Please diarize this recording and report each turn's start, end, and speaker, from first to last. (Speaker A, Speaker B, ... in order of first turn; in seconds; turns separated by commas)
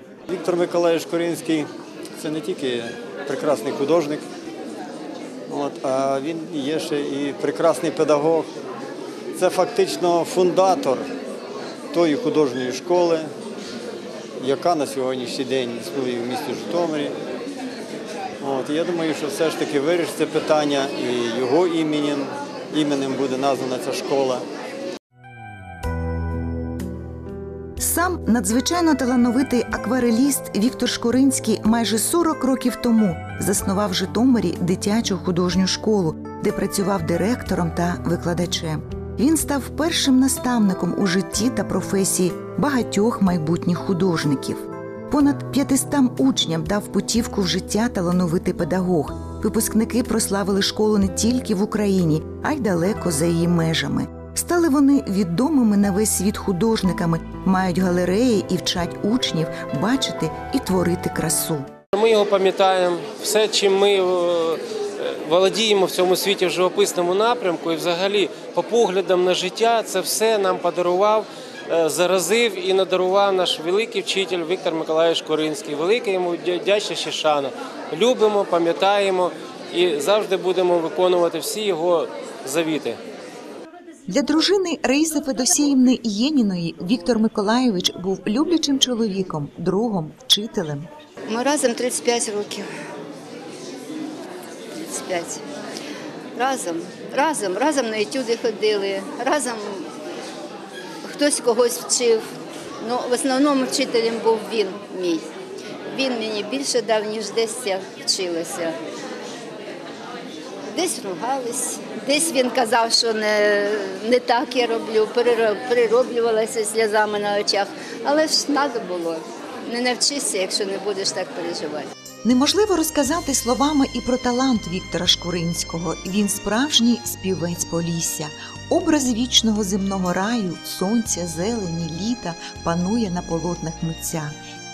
Speaker A: 0.3-1.7, Speaker A: 2.2-4.2, Speaker A: 5.5-8.5, Speaker A: 9.4-11.1, Speaker A: 11.9-13.3, Speaker A: 14.4-17.1, Speaker A: 18.4-24.4, Speaker B: 27.8-61.7, Speaker C: 61.9-83.0, Speaker B: 84.1-90.9, Speaker D: 91.3-92.7, Speaker D: 94.8-95.4, Speaker D: 96.3-99.9, Speaker D: 101.0-102.2, Speaker D: 102.8-105.2, Speaker D: 105.9-108.7, Speaker D: 110.7-121.9, Speaker B: 122.2-134.3